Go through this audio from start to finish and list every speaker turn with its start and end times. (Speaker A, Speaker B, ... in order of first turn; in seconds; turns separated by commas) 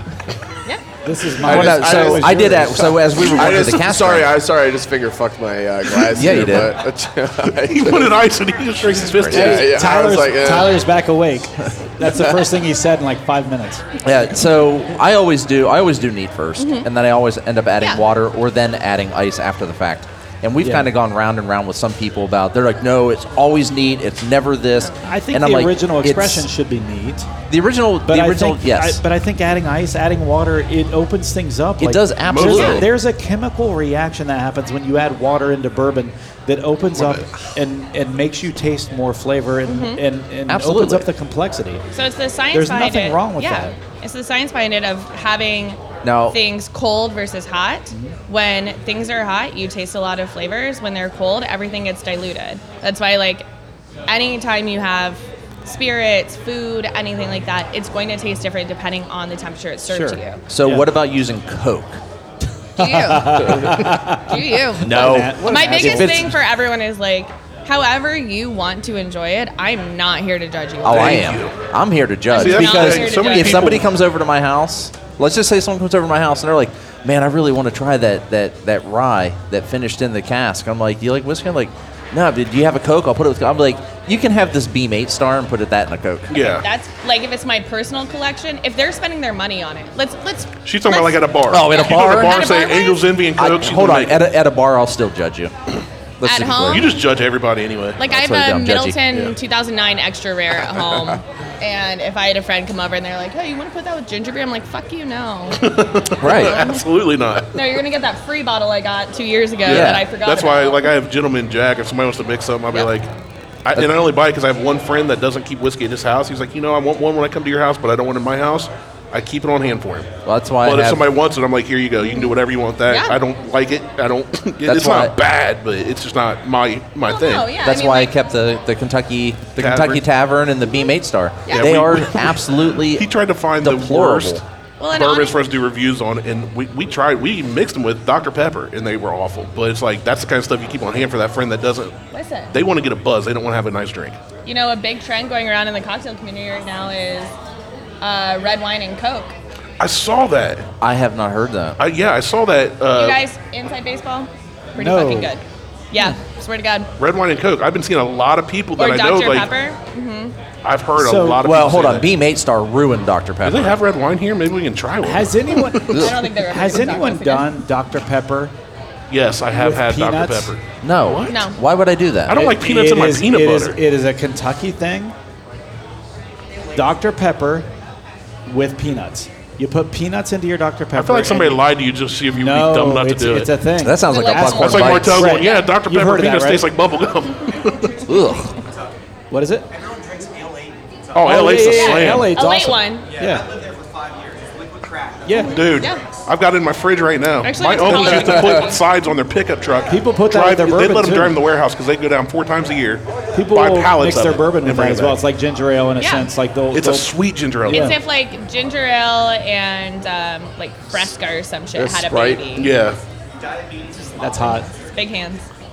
Speaker A: 1.1-3.1, Speaker B: 1.4-4.3, Speaker C: 1.4-8.2, Speaker B: 6.1-6.8, Speaker D: 7.6-9.9, Speaker B: 8.9-9.7, Speaker C: 9.3-10.8, Speaker A: 9.3-13.8, Speaker B: 14.0-26.5, Speaker E: 16.6-16.9, Speaker A: 20.6-20.9, Speaker A: 25.0-27.3, Speaker B: 27.5-29.0, Speaker A: 28.1-41.8, Speaker B: 31.8-32.9, Speaker D: 32.3-32.9, Speaker D: 37.0-37.3, Speaker E: 39.7-40.0, Speaker B: 40.5-41.1, Speaker E: 41.9-53.5, Speaker A: 42.5-43.7, Speaker B: 46.0-46.4, Speaker E: 54.1-60.4, Speaker A: 59.9-60.9, Speaker B: 60.5-62.0, Speaker E: 62.8-71.4, Speaker A: 62.8-66.3, Speaker B: 64.8-66.4, Speaker D: 70.8-71.5, Speaker B: 70.8-86.3, Speaker E: 72.3-73.8, Speaker D: 72.3-73.9, Speaker D: 86.3-86.7, Speaker E: 86.3-93.1, Speaker D: 90.7-94.2, Speaker B: 91.5-92.5, Speaker B: 93.4-95.5, Speaker B: 96.2-96.9, Speaker E: 96.2-96.9, Speaker D: 96.7-98.0, Speaker E: 98.0-106.8, Speaker B: 98.1-99.0, Speaker D: 105.6-107.5, Speaker B: 106.2-106.7, Speaker E: 107.5-110.9, Speaker D: 109.7-113.1, Speaker B: 109.7-110.1, Speaker D: 113.7-120.1, Speaker B: 120.3-121.0, Speaker D: 120.6-127.6, Speaker E: 122.9-123.2, Speaker B: 124.7-125.1, Speaker E: 127.0-128.1, Speaker B: 127.6-133.1, Speaker D: 129.6-130.0, Speaker E: 131.5-131.7, Speaker D: 131.5-132.4, Speaker D: 132.9-141.9, Speaker B: 133.6-134.4, Speaker E: 134.8-135.4, Speaker E: 142.1-142.6, Speaker D: 142.5-144.2, Speaker E: 144.4-147.3, Speaker E: 148.0-149.3, Speaker D: 149.8-150.7, Speaker B: 150.8-151.8, Speaker D: 151.8-153.2, Speaker E: 152.9-156.9, Speaker A: 154.8-155.3, Speaker D: 157.0-159.5, Speaker E: 158.8-160.3, Speaker D: 160.6-162.1, Speaker A: 161.0-161.5, Speaker B: 161.4-163.8, Speaker D: 163.4-166.0, Speaker A: 165.0-168.5, Speaker B: 165.9-166.2, Speaker E: 165.9-167.5, Speaker D: 169.1-171.4, Speaker A: 169.5-170.5, Speaker B: 170.8-172.5, Speaker E: 171.3-171.6, Speaker D: 172.3-173.8, Speaker A: 172.3-175.2, Speaker A: 176.7-177.7, Speaker A: 178.5-181.6, Speaker D: 181.0-183.5, Speaker A: 182.4-186.7, Speaker B: 183.8-185.4, Speaker E: 184.1-185.7, Speaker D: 184.5-188.0, Speaker B: 188.1-188.5, Speaker A: 189.3-189.7, Speaker D: 191.1-192.3, Speaker A: 191.2-193.5, Speaker E: 191.6-193.1, Speaker A: 195.2-195.6, Speaker E: 195.3-196.0, Speaker D: 195.5-205.2, Speaker E: 197.4-198.8, Speaker A: 199.9-201.4, Speaker A: 203.3-207.1, Speaker E: 206.0-206.3, Speaker D: 206.7-207.9, Speaker A: 207.7-208.0, Speaker E: 207.7-212.7, Speaker C: 211.8-212.5, Speaker D: 212.6-213.0, Speaker A: 214.1-214.7, Speaker E: 214.8-215.5